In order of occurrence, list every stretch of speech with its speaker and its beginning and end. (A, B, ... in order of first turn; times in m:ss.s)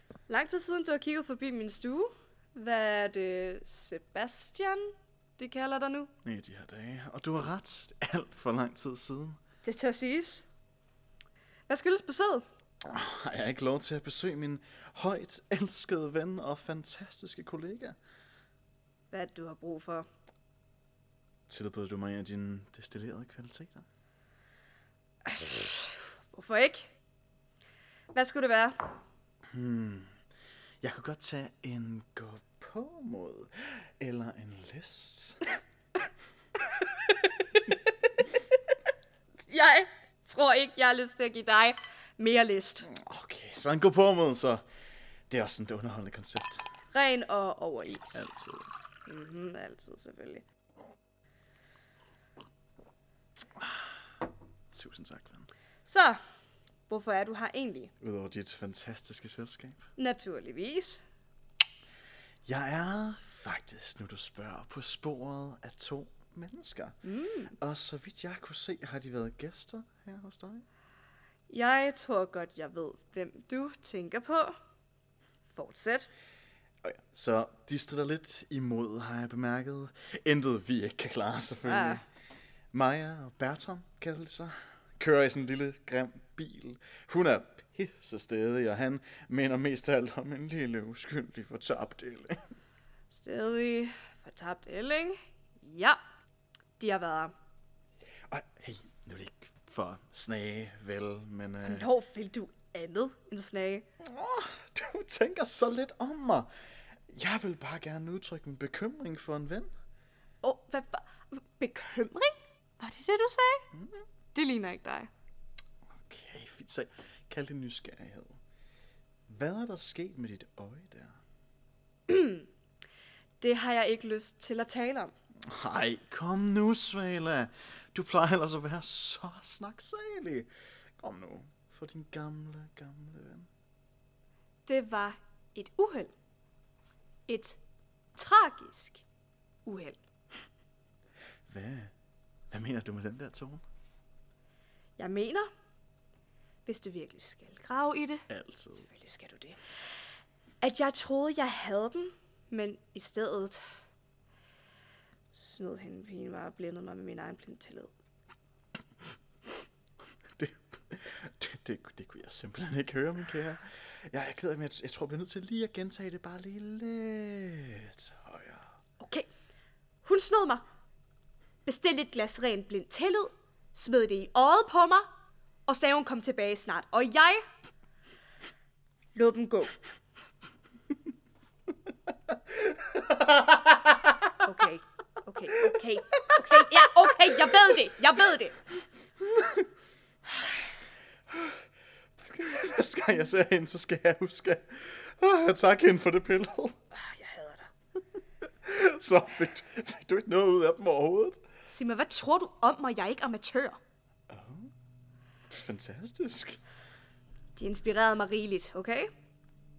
0:00.3-0:06.1 A
0:06.2-0:09.4 B
0:09.6-0:10.4 A
0:11.7-0:12.5 A
0:12.8-0:18.0 B
0:19.1-0:20.1 A
0:21.5-0:23.9 B
0:25.2-0:26.9 A
0:28.1-0:29.0 A
0:29.5-0:30.1 B
0:30.8-0:35.4 B
0:39.5-0:42.9 A
0:42.8-0:44.6 B
0:45.3-0:46.6 B
0:46.9-0:48.3 A
0:48.1-0:48.7 B
0:49.1-0:50.4 A
0:53.6-0:53.9 B
0:54.7-0:55.5 B
0:55.8-0:56.2 A
0:56.9-0:57.9 A
0:58.0-0:59.8 B
1:00.0-1:01.0 A
1:02.5-1:07.0 B
1:07.0-1:07.6 A
1:07.6-1:10.6 B
1:11.5-1:14.6 A
1:15.5-1:16.1 A
1:16.8-1:22.0 B
1:21.6-1:22.0 A
1:22.7-1:32.4 B
1:33.1-1:36.0 A
1:36.8-1:37.3 A
1:38.3-1:41.9 B
1:41.6-1:43.9 A
1:44.0-1:46.5 B
1:47.1-1:49.7 B
1:50.4-1:53.7 A
1:53.7-1:54.0 B
1:54.3-1:55.1 A
1:55.9-1:58.4 B
1:59.3-2:01.2 B
2:02.1-2:02.5 A
2:03.4-2:05.1 A
2:05.4-2:13.5 B
2:14.7-2:16.1 A
2:17.3-2:17.6 A
2:18.2-2:19.0 A
2:19.7-2:20.0 A
2:21.5-2:21.9 B
2:22.5-2:23.6 B
2:25.0-2:25.5 A
2:26.7-2:29.6 A
2:28.3-2:28.8 B
2:30.6-2:33.6 A
2:35.3-2:37.9 A
2:40.4-2:48.7 B
2:49.0-2:49.3 A
2:50.0-2:50.6 A
2:51.6-2:55.1 A
2:55.7-2:57.4 A
2:59.2-2:59.7 A
3:04.4-3:08.6 A
3:12.2-3:16.8 B
3:16.9-3:17.7 A
3:18.4-3:21.4 B
3:21.7-3:23.8 A
3:24.3-3:24.7 B
3:25.5-3:26.6 B
3:27.6-3:29.1 A